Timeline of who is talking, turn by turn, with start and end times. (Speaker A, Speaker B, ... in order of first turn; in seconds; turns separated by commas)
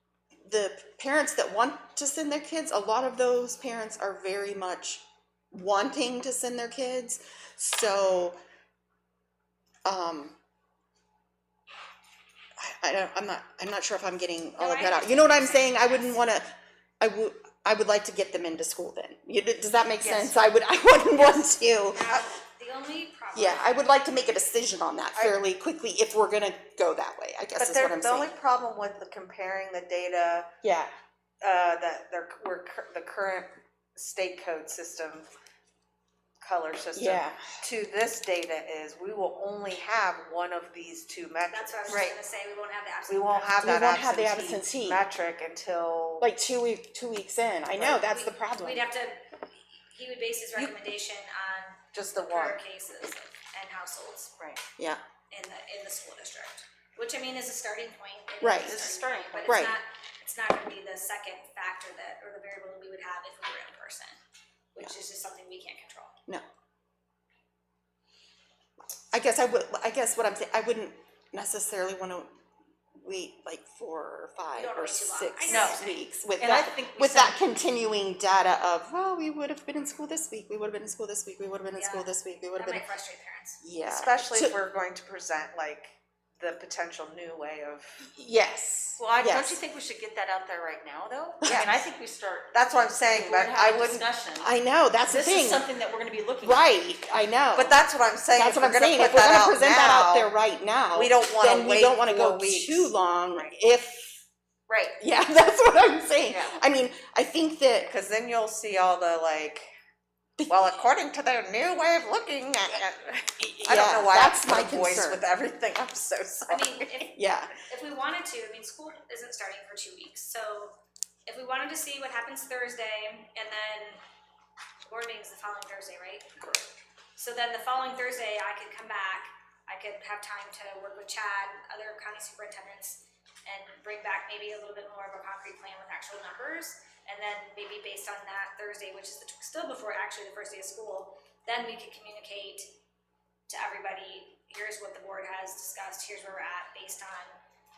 Speaker A: 0.4-8.4, Speaker A: 9.8-10.4, Speaker A: 12.6-22.2, Speaker B: 14.6-16.2, Speaker B: 21.9-23.9, Speaker A: 23.3-28.3, Speaker C: 25.1-25.4, Speaker C: 27.6-30.5, Speaker A: 30.6-30.9, Speaker C: 31.4-35.3, Speaker C: 36.4-42.1, Speaker A: 36.9-37.4, Speaker B: 41.5-43.6, Speaker D: 41.9-42.1, Speaker C: 43.1-46.3, Speaker A: 43.6-45.0, Speaker A: 46.2-48.8, Speaker C: 47.7-48.0, Speaker B: 48.0-54.3, Speaker C: 51.9-52.6, Speaker D: 54.4-54.6, Speaker B: 55.3-64.2, Speaker A: 58.4-58.9, Speaker D: 58.6-59.6, Speaker A: 59.4-59.8, Speaker B: 64.7-66.1, Speaker A: 69.1-72.3, Speaker A: 72.9-82.8, Speaker B: 74.5-76.0, Speaker D: 75.5-77.5, Speaker B: 81.8-83.6, Speaker A: 83.6-84.5, Speaker C: 83.8-88.0, Speaker A: 88.0-89.6, Speaker D: 89.0-94.5, Speaker C: 91.4-91.7, Speaker C: 92.5-94.1, Speaker A: 94.4-95.7, Speaker D: 95.0-96.6, Speaker A: 96.4-97.8, Speaker C: 97.5-100.3, Speaker A: 98.3-104.2, Speaker C: 100.9-102.9, Speaker D: 104.7-105.0, Speaker A: 105.0-107.9, Speaker D: 106.3-106.6, Speaker C: 107.8-109.7, Speaker A: 110.4-110.7, Speaker C: 110.5-117.1, Speaker A: 113.4-115.2, Speaker B: 116.5-124.0, Speaker A: 117.1-117.5, Speaker B: 124.8-126.6, Speaker B: 127.2-142.7, Speaker B: 143.5-147.4